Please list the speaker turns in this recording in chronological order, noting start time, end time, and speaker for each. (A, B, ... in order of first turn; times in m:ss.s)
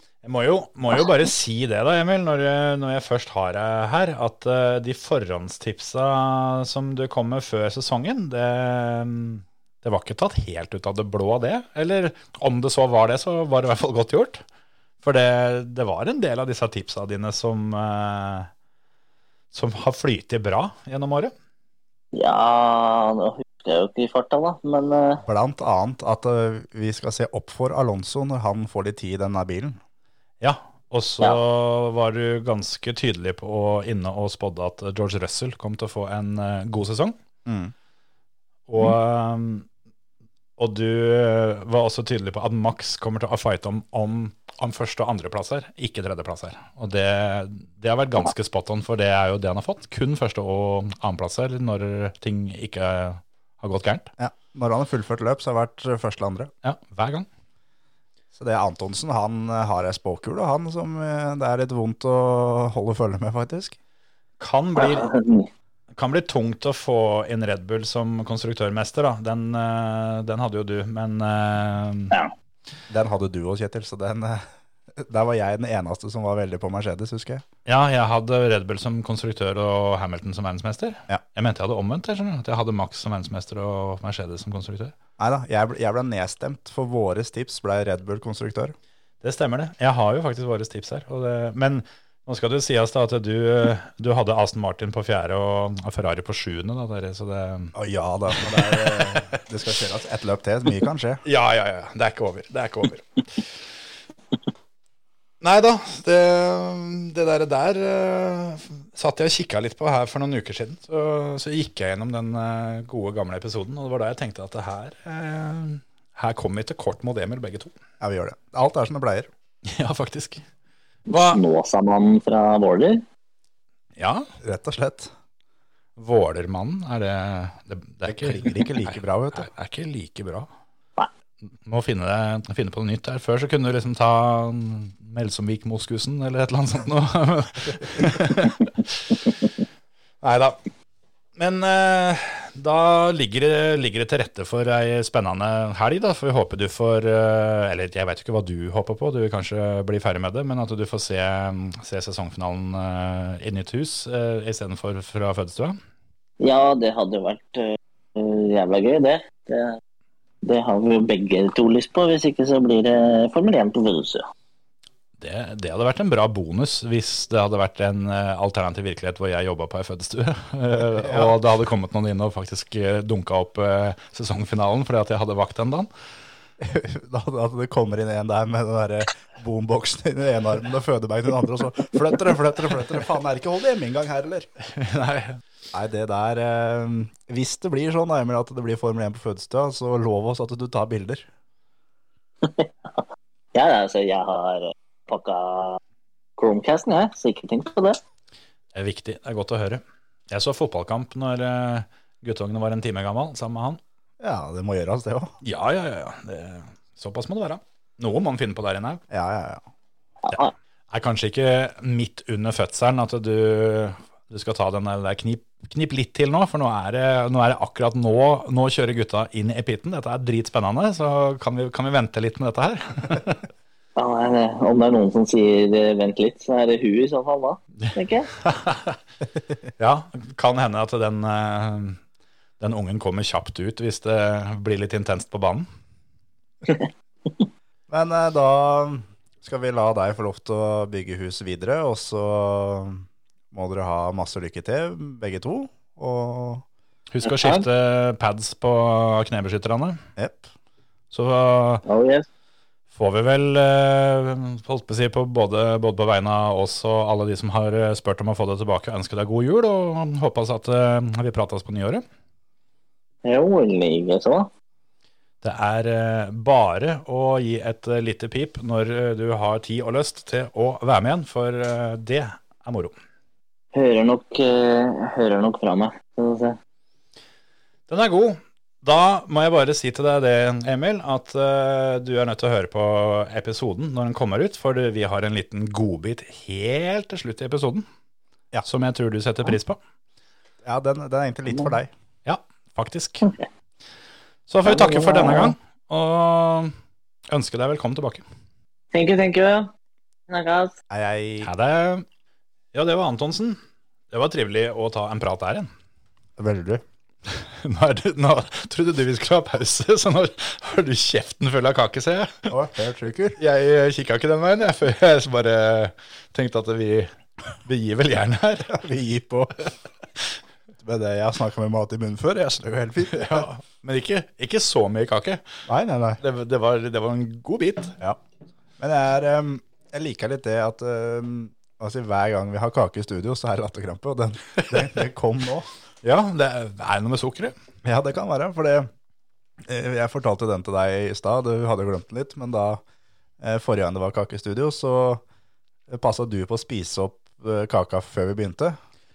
0:00.2-0:14.4 A
0:15.0-0:18.5 A
0:19.5-0:21.3 A
0:22.1-0:25.2 B
0:25.2-0:29.8 C
0:30.4-0:37.2 A
0:37.4-0:37.7 C
0:38.7-0:39.7 A
0:40.6-0:54.1 A
0:54.2-0:56.5 C
0:56.6-0:57.3 A
0:58.3-1:03.8 C
1:04.4-1:05.2 A
1:04.8-1:05.5 B
1:05.9-1:12.2 A
1:12.9-1:17.4 C
1:17.7-1:25.0 A
1:25.2-1:28.7 C
1:29.2-1:37.7 A
1:37.8-1:41.2 C
1:38.3-1:39.3 A
1:41.2-1:43.2 A
1:45.4-1:57.7 A
1:58.0-1:59.3 C
1:59.7-2:00.4 A
2:01.1-2:01.4 A
2:01.1-2:03.0 B
2:04.0-2:04.3 A
2:04.4-2:05.1 C
2:06.0-2:10.5 A
2:08.0-2:09.5 C
2:11.6-2:19.2 A
2:20.2-2:20.6 A
2:21.4-2:35.8 A
2:36.4-2:39.8 B
2:40.4-2:44.2 B
2:45.2-2:55.9 A
2:51.0-2:51.4 C
2:56.6-3:04.5 C
3:04.7-3:05.4 A
3:05.7-3:11.3 C
3:12.4-3:13.0 B
3:13.5-3:15.8 B
3:16.4-3:18.0 B
3:18.7-3:23.8 A
3:24.2-3:25.4 C
3:25.4-3:29.0 A
3:29.1-3:29.6 C
3:30.9-3:43.4 A
3:44.0-3:48.3 B
3:47.8-3:49.0 A
3:49.8-3:52.0 A
3:52.6-3:55.7 A
3:57.9-4:06.6 C
4:07.1-4:10.0 A
4:07.2-4:07.6 B
4:10.2-4:10.5 C
4:11.1-4:11.8 A
4:11.8-4:12.3 B
4:12.9-4:22.0 A
4:23.2-4:24.5 B
4:25.4-4:32.9 A
4:33.7-4:36.6 B
4:37.9-4:47.9 A
4:48.6-4:49.8 A
4:50.6-4:51.9 C
4:52.3-4:53.3 A
4:54.5-4:56.7 A
4:54.6-4:55.5 B
4:57.3-4:58.2 A
4:58.9-4:59.7 B
5:00.3-5:00.7 B
5:00.9-5:01.5 C
5:01.4-5:02.0 A
5:02.7-5:03.6 A
5:04.1-5:05.7 A
5:06.4-5:06.8 C
5:07.3-5:12.5 A
5:12.5-5:13.4 C
5:13.4-5:17.1 A
5:17.6-5:18.8 A
5:18.7-5:19.5 C
5:20.8-5:23.5 C
5:23.1-5:25.4 A
5:25.7-5:26.2 C
5:26.2-5:28.0 A
5:28.8-5:35.7 C
5:36.0-5:37.5 A
5:37.8-5:38.9 C
5:39.6-5:42.8 C
5:43.4-5:45.2 C
5:45.9-5:48.8 C